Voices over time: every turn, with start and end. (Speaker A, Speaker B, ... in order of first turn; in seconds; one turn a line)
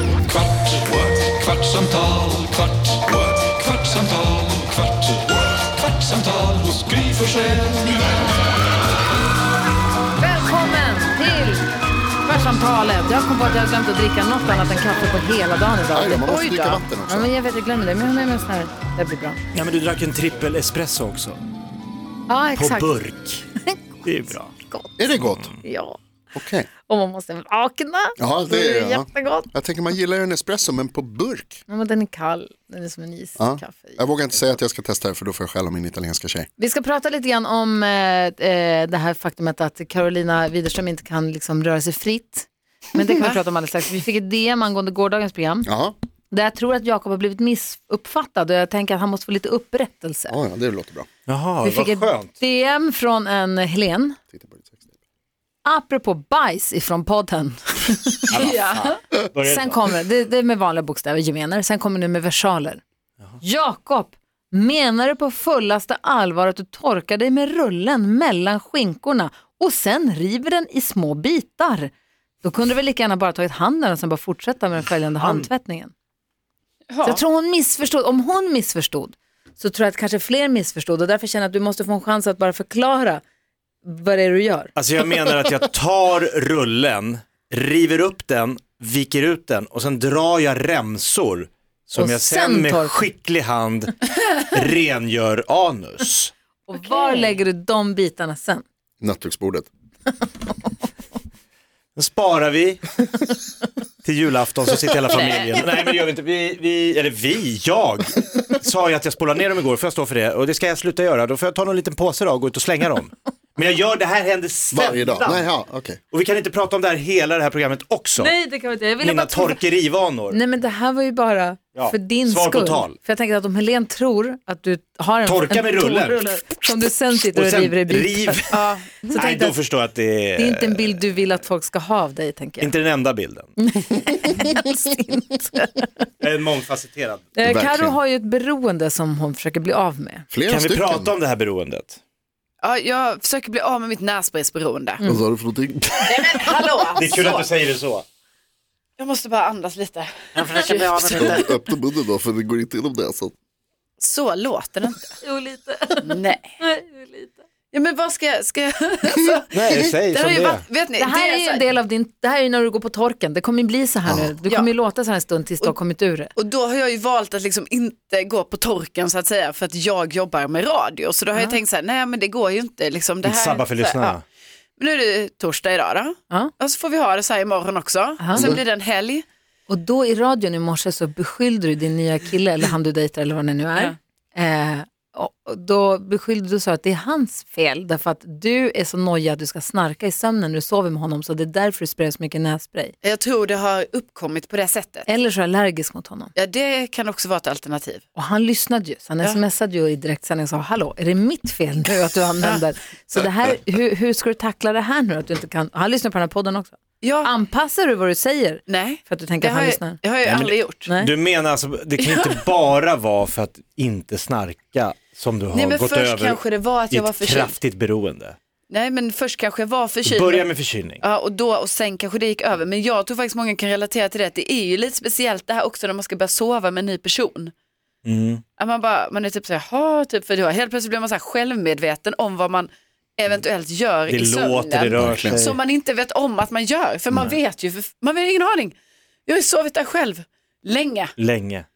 Speaker A: 0.3-8.0
Speaker B: 10.2-11.6
Speaker B: 12.2-16.3
Speaker C: 15.9-17.3
Speaker D: 16.2-16.8
Speaker B: 17.1-19.4
Speaker E: 19.5-21.4
Speaker B: 22.3-23.0
Speaker E: 22.6-23.5
Speaker E: 24.0-24.5
Speaker B: 24.6-25.0
Speaker C: 25.0-25.5
Speaker E: 25.2-25.6
Speaker B: 25.6-26.0
Speaker C: 26.3-26.7
Speaker B: 26.8-28.2
Speaker C: 28.2-31.6
Speaker D: 28.5-28.8
Speaker B: 29.1-29.4
Speaker B: 31.7-34.0
Speaker C: 33.4-36.5
Speaker B: 36.6-45.7
Speaker C: 45.7-46.0
Speaker B: 46.3-50.4
Speaker C: 50.3-51.1
Speaker E: 51.3-52.3
Speaker B: 51.6-54.2
Speaker C: 54.3-54.8
Speaker B: 55.6-58.4
Speaker E: 58.3-59.8
Speaker D: 58.3-59.0
Speaker B: 59.4-62.8
Speaker B: 63.4-71.9
Speaker B: 72.4-75.9
Speaker E: 75.2-75.5
Speaker D: 76.9-77.2
Speaker B: 77.0-83.2
Speaker B: 83.8-84.7
Speaker E: 84.8-96.3
Speaker B: 92.0-93.0
Speaker B: 96.7-98.6
Speaker C: 99.0-99.7
Speaker E: 102.0-103.0
Speaker E: 104.0-115.5
Speaker D: 105.1-105.7
Speaker C: 114.7-116.0
Speaker E: 116.1-118.3
Speaker B: 118.2-119.6
Speaker E: 119.0-120.4
Speaker B: 120.3-128.4
Speaker E: 121.7-123.0
Speaker E: 125.2-126.5
Speaker E: 127.1-131.1
Speaker D: 128.5-129.0
Speaker B: 129.0-129.6
Speaker B: 130.3-132.7
Speaker E: 132.6-133.5
Speaker B: 133.6-136.1
Speaker E: 136.2-137.3
Speaker B: 137.3-140.3
Speaker C: 137.4-138.0
Speaker C: 140.3-141.1
Speaker E: 140.5-142.0
Speaker D: 142.6-145.0
Speaker B: 145.0-145.2
Speaker C: 145.0-146.1
Speaker D: 146.0-147.5
Speaker E: 146.3-148.0
Speaker D: 149.0-151.5
Speaker E: 150.3-151.4
Speaker C: 151.1-153.3
Speaker D: 154.0-155.1
Speaker B: 155.2-157.4
Speaker D: 156.0-156.6
Speaker D: 157.7-161.6
Speaker E: 159.5-160.6
Speaker B: 161.0-166.3
Speaker C: 164.1-164.3
Speaker D: 166.3-174.2
Speaker E: 173.2-174.2
Speaker D: 174.8-179.2
Speaker B: 178.2-178.6
Speaker B: 179.7-192.9
Speaker D: 193.0-195.1
Speaker B: 195.1-196.3
Speaker D: 196.3-198.0
Speaker B: 198.1-210.0
Speaker D: 207.0-207.3
Speaker D: 208.7-210.9
Speaker E: 210.2-218.4
Speaker B: 210.9-211.1
Speaker D: 215.5-217.5
Speaker D: 218.7-220.4
Speaker E: 220.0-221.0
Speaker D: 221.0-227.5
Speaker E: 228.0-228.4
Speaker D: 228.6-238.7
Speaker E: 234.1-235.6
Speaker C: 234.9-235.4
Speaker D: 239.3-241.1
Speaker E: 241.2-241.7